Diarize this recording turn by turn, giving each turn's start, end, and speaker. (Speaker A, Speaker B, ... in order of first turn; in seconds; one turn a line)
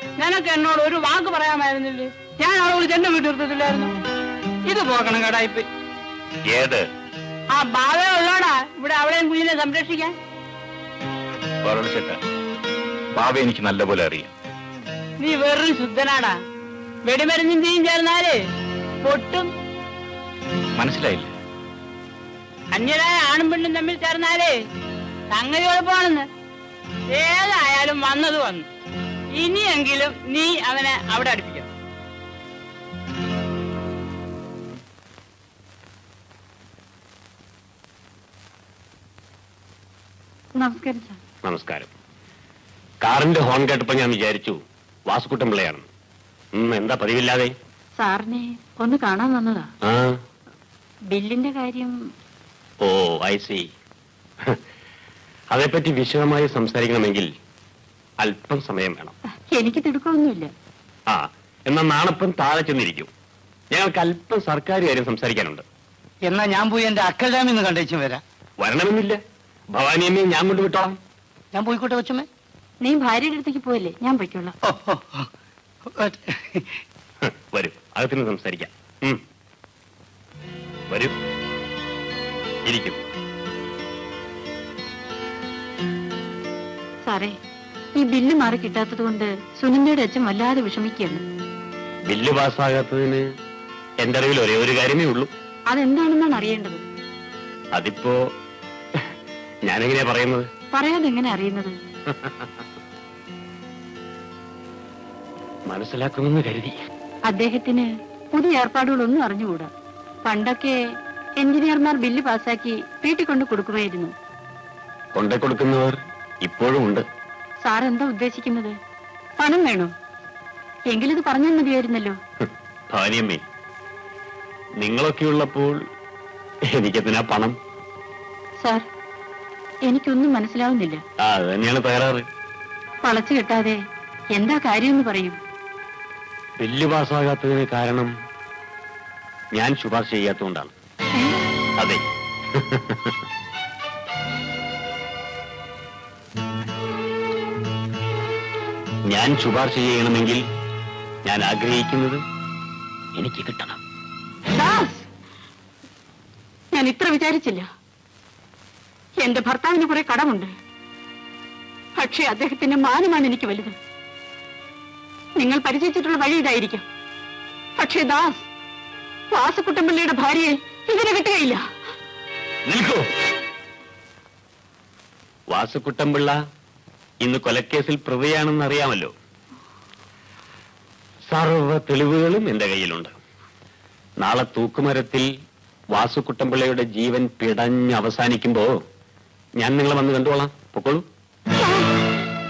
Speaker A: 0.2-3.9
Speaker A: 4.7-5.7
Speaker B: 6.5-6.8
Speaker A: 7.5-10.1
Speaker B: 11.6-12.2
Speaker B: 13.1-14.3
Speaker A: 15.2-16.3
Speaker A: 17.1-18.4
Speaker A: 19.0-19.5
Speaker B: 20.8-21.3
Speaker A: 22.7-24.6
Speaker A: 25.3-26.2
Speaker A: 27.1-28.6
Speaker A: 29.4-31.7
Speaker C: 40.6-41.2
Speaker D: 41.4-41.9
Speaker D: 43.0-45.9
Speaker D: 46.6-47.5
Speaker C: 48.0-49.7
Speaker D: 49.9-50.1
Speaker C: 51.1-51.9
Speaker D: 52.8-53.6
Speaker D: 55.5-57.3
Speaker D: 58.2-59.1
Speaker C: 59.5-60.5
Speaker D: 61.1-63.1
Speaker D: 63.7-65.6
Speaker E: 66.3-68.2
Speaker D: 68.6-69.2
Speaker D: 69.7-71.0
Speaker E: 71.5-72.2
Speaker C: 72.8-74.5
Speaker E: 74.7-75.2
Speaker E: 76.0-76.7
Speaker D: 77.2-79.2
Speaker D: 80.9-81.2
Speaker D: 82.7-83.0
Speaker C: 87.0-87.3
Speaker C: 88.0-91.2
Speaker D: 92.1-93.2
Speaker D: 94.0-95.3
Speaker C: 95.7-96.8
Speaker D: 97.7-98.2
Speaker D: 99.7-100.4
Speaker C: 100.7-101.8
Speaker D: 102.1-102.6
Speaker D: 105.7-106.7
Speaker C: 107.3-109.7
Speaker C: 110.2-110.8
Speaker C: 111.4-114.1
Speaker D: 115.1-117.0
Speaker C: 117.6-118.8
Speaker C: 119.4-119.9
Speaker C: 120.9-122.2
Speaker D: 122.4-123.4
Speaker D: 124.8-125.8
Speaker D: 126.7-127.5
Speaker C: 128.6-128.8
Speaker C: 129.9-131.0
Speaker D: 131.2-132.2
Speaker C: 133.0-133.8
Speaker C: 134.3-135.4
Speaker D: 136.6-138.1
Speaker D: 139.6-140.7
Speaker D: 142.6-143.2
Speaker D: 149.1-150.4
Speaker D: 151.2-152.2
Speaker D: 153.2-153.8
Speaker C: 154.5-155.1
Speaker C: 156.7-157.7
Speaker C: 159.2-160.5
Speaker C: 162.0-163.8
Speaker C: 165.4-166.8
Speaker C: 167.8-168.4
Speaker C: 169.3-171.6
Speaker D: 172.7-173.0
Speaker D: 175.5-176.3
Speaker D: 177.2-179.1
Speaker D: 181.3-183.1
Speaker D: 184.2-185.3
Speaker D: 185.9-188.7
Speaker D: 189.6-191.1
Speaker C: 191.6-191.9